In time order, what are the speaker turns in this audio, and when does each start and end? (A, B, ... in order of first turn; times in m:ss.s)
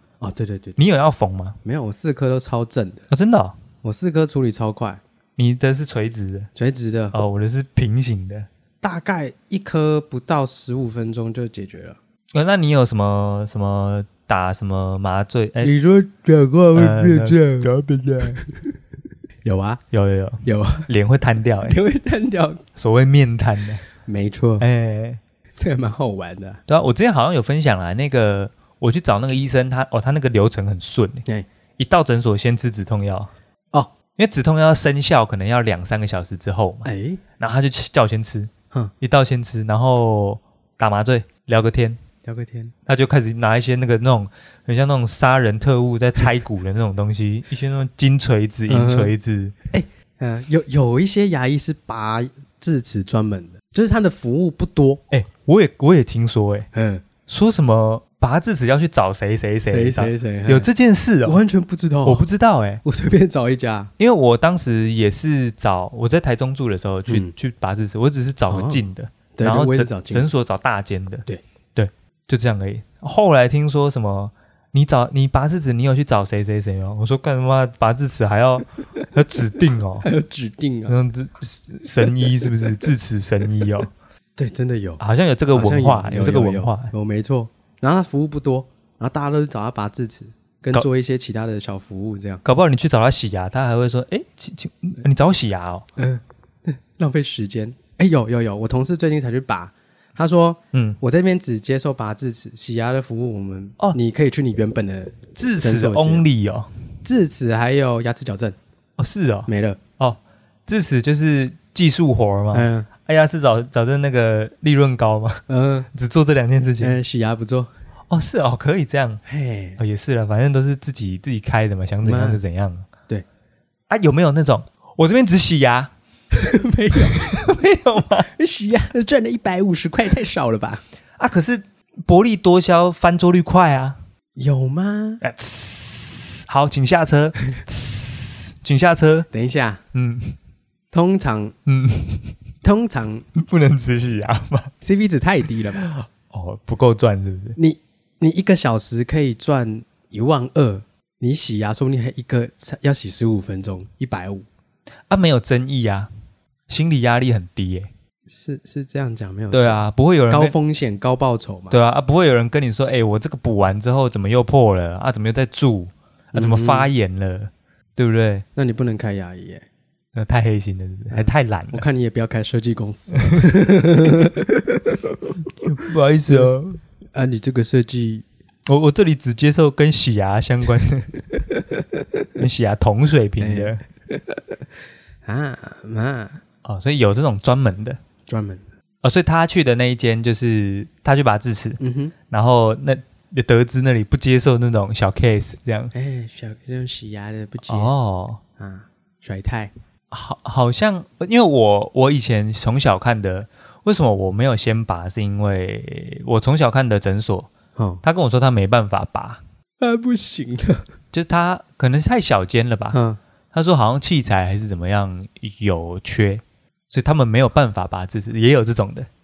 0:00.2-0:00.8 A
0:00.8-0:01.6 B
0:01.6-0:03.1 A
0:03.1-0:03.6 B
0:03.8-0:05.0 A
0:05.4-0:06.5 B
0:06.6-0:07.2 A
0:07.1-0:08.5 B
0:08.8-0:12.0 A
0:12.3-0:15.7 B
0:15.6-0:18.5 A
0:16.7-0:18.4 B
0:19.4-0:19.8 A
0:19.9-0:21.8 B
0:20.4-0:20.9 A
0:21.6-0:22.6 A
0:22.8-0:23.8 B
0:24.1-0:24.6 A
0:24.6-0:25.2 B
0:25.6-0:26.6 A
0:26.7-0:31.2 B
0:31.8-0:33.3 B
0:34.2-0:36.9 B
0:36.8-0:37.2 A
0:37.4-0:42.0 B
0:42.2-0:42.7 A
0:42.9-0:49.6 B
0:48.7-0:49.1 A
0:49.7-0:55.0 A
0:55.1-0:56.7 B
0:56.7-0:57.0 A
0:57.3-1:01.4 B
0:59.6-1:00.7 A
1:01.2-1:02.3 A
1:02.0-1:02.8 B
1:02.8-1:03.9 A
1:04.0-1:20.1 B
1:07.1-1:07.3 A
1:08.5-1:08.8 A
1:09.4-1:10.3 A
1:20.0-1:21.0 A
1:20.9-1:23.9 B
1:22.2-1:22.5 A
1:24.4-1:25.0 A
1:25.0-1:26.9 B
1:25.5-1:32.4 A
1:32.4-1:35.9 B
1:36.0-1:46.2 A
1:40.7-1:41.0 B
1:45.4-1:46.7 B
1:47.0-1:48.6 A
1:49.0-1:49.5 B
1:49.5-1:49.8 A
1:50.0-1:57.0 B
1:52.5-1:52.9 A
1:55.5-1:55.9 A
1:56.8-1:57.7 A
1:58.1-1:59.2 B
1:59.2-1:59.8 A
1:59.8-2:02.9 B
2:02.0-2:02.4 A
2:03.9-2:05.9 B
2:06.3-2:07.3 A
2:07.1-2:08.3 B
2:08.3-2:10.8 A
2:11.2-2:14.0 B
2:14.4-2:15.2 A
2:15.2-2:19.3 B
2:19.3-2:19.8 A
2:19.9-2:20.4 B
2:20.9-2:21.6 A
2:21.6-2:22.4 B
2:22.6-2:23.2 A
2:23.4-2:24.7 B
2:24.8-2:25.9 A
2:25.8-2:27.6 B
2:27.6-2:34.4 A
2:35.1-2:36.1 B
2:36.7-2:37.9 B
2:38.3-2:41.8 A
2:39.5-2:40.6 B
2:41.7-2:48.4 B
2:46.4-2:46.9 A
2:48.6-2:49.6 A
2:50.1-2:51.8 B
2:51.1-2:55.0 A
2:55.6-2:56.8 B
2:57.1-2:58.2 A
2:58.7-3:01.1 B
3:02.4-3:03.8 B
3:03.4-3:04.4 A
3:05.2-3:06.4 A
3:06.6-3:08.0 B
3:08.3-3:08.6 A
3:09.0-3:15.9 B
3:11.8-3:12.1 A
3:15.9-3:17.9 A
3:17.7-3:18.4 B
3:18.6-3:19.7 A
3:20.1-3:27.5 B
3:27.8-3:28.0 A
3:28.0-3:29.4 B
3:29.8-3:30.8 A
3:31.1-3:33.0 B
3:32.9-3:33.2 A
3:33.5-3:39.1 B